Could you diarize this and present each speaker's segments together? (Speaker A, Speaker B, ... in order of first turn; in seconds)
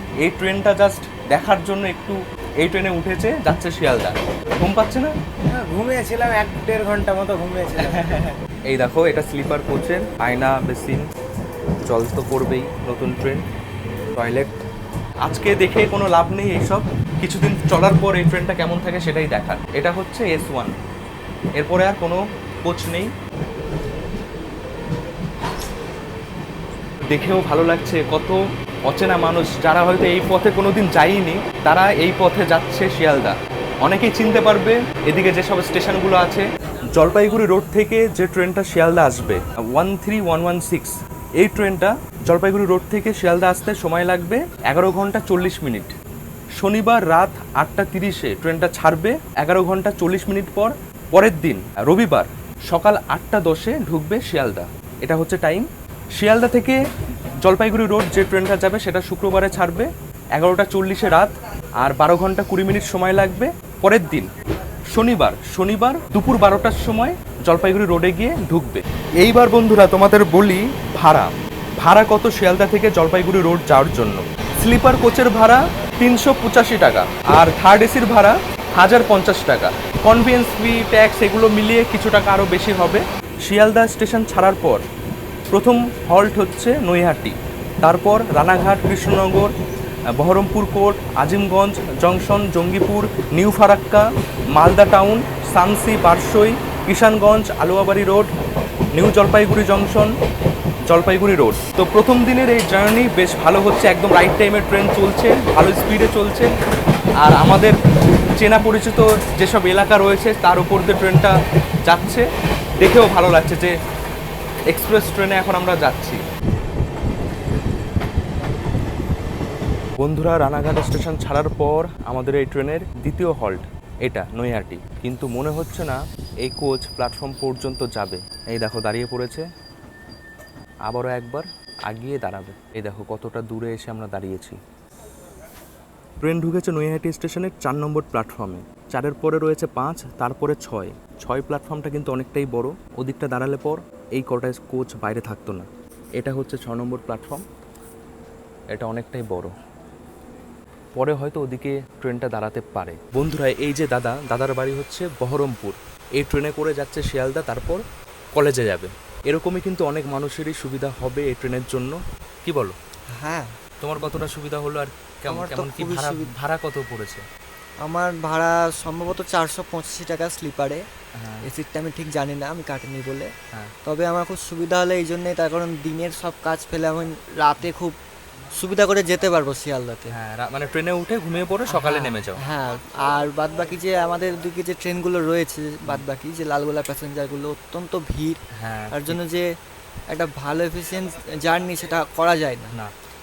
Speaker A: 0.2-5.1, 7.8-11.1, 11.8-13.4, 14.2-14.5, 15.2-20.8, 21.6-23.1, 27.1-45.9, 46.6-56.8, 57.4-64.3, 64.9-84.8, 85.5-89.5, 90.2-98.3, 99.0-100.1, 100.9-106.5, 107.2-107.7, 108.4-111.3, 111.9-112.3, 112.8-113.7, 114.7-116.2, 120.0-129.5, 130.9-134.6, 136.2-145.7, 146.2-147.4, 148.7-149.5, 150.9-157.8, 158.3-162.8, 163.8-167.2, 171.2-171.5, 180.1-182.4, 188.6-189.2
Speaker B: 5.5-8.1
Speaker C: 163.1-163.5, 165.3-166.3, 167.8-170.8, 171.4-173.3, 173.8-178.0, 178.5-180.1, 181.7-188.4, 188.9-189.4, 190.1-192.7